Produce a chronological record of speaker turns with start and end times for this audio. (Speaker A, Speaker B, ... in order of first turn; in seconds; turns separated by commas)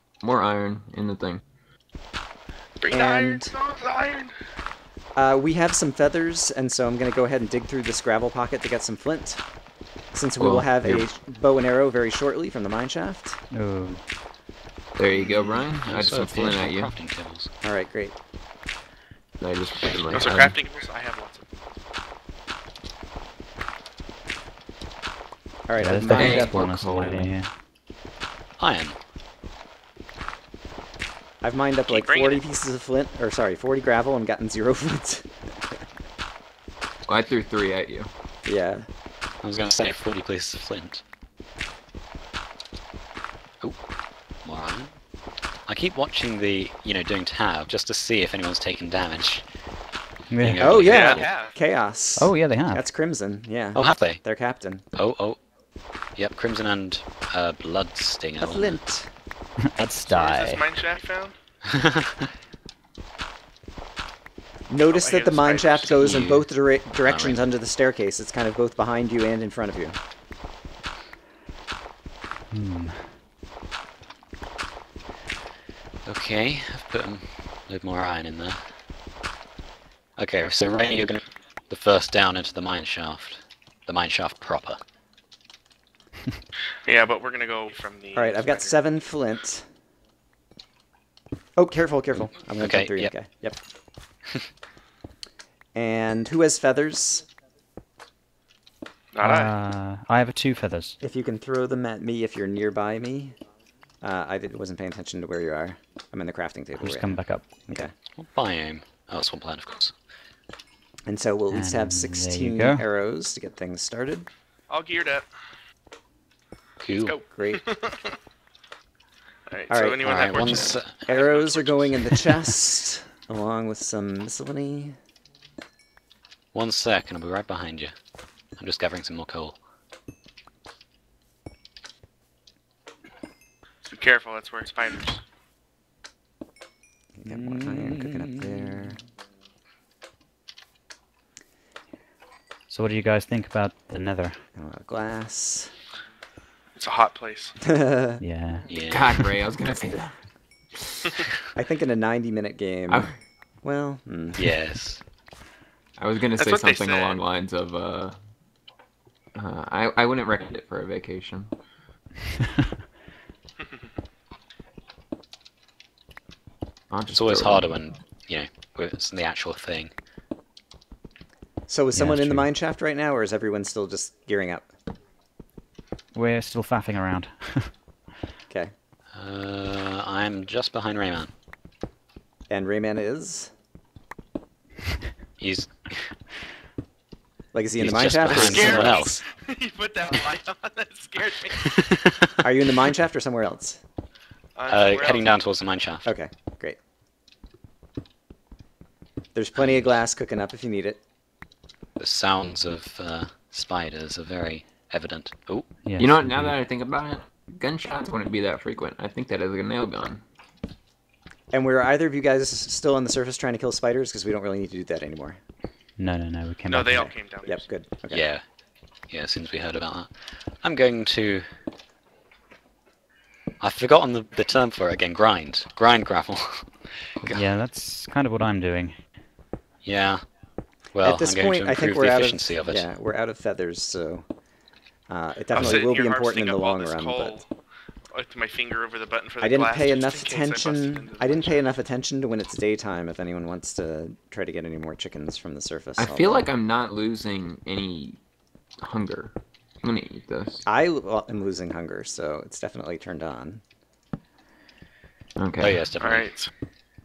Speaker A: 0.2-1.4, Speaker B: 2.8-4.3, Speaker C: 2.9-3.5, Speaker C: 5.2-9.4, Speaker C: 10.1-13.4, Speaker A: 10.4-11.1, Speaker D: 13.5-14.0, Speaker A: 15.0-16.9, Speaker E: 15.5-17.5, Speaker C: 17.6-18.1, Speaker A: 19.4-20.6, Speaker B: 20.1-21.5, Speaker C: 25.7-26.7, Speaker D: 25.8-27.5, Speaker A: 26.1-27.3, Speaker E: 28.6-29.0, Speaker C: 31.4-35.8, Speaker B: 31.9-32.4, Speaker A: 37.1-38.1, Speaker C: 38.5-38.9, Speaker E: 39.4-41.0, Speaker E: 44.4-45.0, Speaker E: 45.7-49.5, Speaker D: 50.3-50.7, Speaker E: 50.4-51.3, Speaker C: 50.6-54.8, Speaker B: 50.8-51.5, Speaker D: 52.2-52.9, Speaker E: 53.7-54.2, Speaker E: 54.9-55.4, Speaker E: 56.2-58.8, Speaker C: 58.4-59.1, Speaker D: 59.7-60.6, Speaker B: 60.1-61.3, Speaker E: 61.7-62.2, Speaker C: 64.7-70.0, Speaker B: 64.9-66.1, Speaker E: 65.9-66.5, Speaker E: 67.0-67.5, Speaker D: 72.5-73.2, Speaker E: 76.0-78.6, Speaker E: 80.2-84.8, Speaker B: 86.8-88.8, Speaker C: 88.1-89.7, Speaker C: 91.6-93.6, Speaker E: 92.5-93.1, Speaker C: 95.8-97.3, Speaker B: 99.1-99.5, Speaker D: 99.2-101.0, Speaker C: 101.0-103.4, Speaker C: 104.0-107.9, Speaker D: 106.8-107.5, Speaker E: 108.2-109.9, Speaker C: 111.1-114.3, Speaker D: 111.5-112.8, Speaker B: 114.7-115.3, Speaker E: 116.8-117.2, Speaker B: 117.0-118.2, Speaker C: 117.3-117.7, Speaker B: 119.5-122.3, Speaker C: 119.7-120.0, Speaker E: 120.0-121.0, Speaker C: 121.1-125.0, Speaker E: 126.5-127.9, Speaker E: 128.6-129.6, Speaker B: 133.8-135.2, Speaker C: 137.2-139.0, Speaker D: 137.3-138.9, Speaker D: 142.7-144.3, Speaker C: 144.6-145.7, Speaker B: 146.8-147.6, Speaker C: 147.6-148.2, Speaker D: 148.2-149.3, Speaker E: 148.7-149.1, Speaker A: 148.8-150.2, Speaker A: 150.8-151.1, Speaker C: 151.6-153.1, Speaker A: 152.9-153.2, Speaker C: 153.6-154.5, Speaker E: 154.4-155.0, Speaker A: 156.0-158.2, Speaker B: 156.4-157.2, Speaker A: 159.4-161.5, Speaker A: 166.9-167.8, Speaker E: 167.1-169.9, Speaker C: 171.7-174.7, Speaker D: 171.9-172.5, Speaker D: 176.1-178.0, Speaker E: 179.1-181.3, Speaker C: 182.5-183.5, Speaker E: 185.4-186.1, Speaker C: 187.5-189.1, Speaker E: 187.8-189.2, Speaker B: 188.3-191.9, Speaker C: 192.4-193.8, Speaker B: 194.6-195.3, Speaker E: 194.7-196.1, Speaker C: 196.1-196.8, Speaker C: 199.3-201.0, Speaker E: 199.6-200.0, Speaker E: 202.0-205.7, Speaker D: 205.8-206.6, Speaker A: 206.0-210.2, Speaker C: 211.5-215.4, Speaker D: 216.0-217.1, Speaker B: 216.7-217.7, Speaker C: 216.9-218.3, Speaker E: 218.1-218.4, Speaker E: 219.1-221.5, Speaker E: 223.6-226.7, Speaker A: 227.2-227.5, Speaker D: 227.3-229.0, Speaker E: 229.8-230.3, Speaker E: 230.9-232.9, Speaker C: 231.0-234.3, Speaker C: 235.1-237.4, Speaker B: 235.5-237.5, Speaker B: 238.1-241.8, Speaker C: 239.4-246.5, Speaker A: 246.0-248.2, Speaker A: 248.8-250.6, Speaker C: 250.7-253.6, Speaker A: 255.4-255.8, Speaker E: 255.6-256.3, Speaker B: 256.0-256.5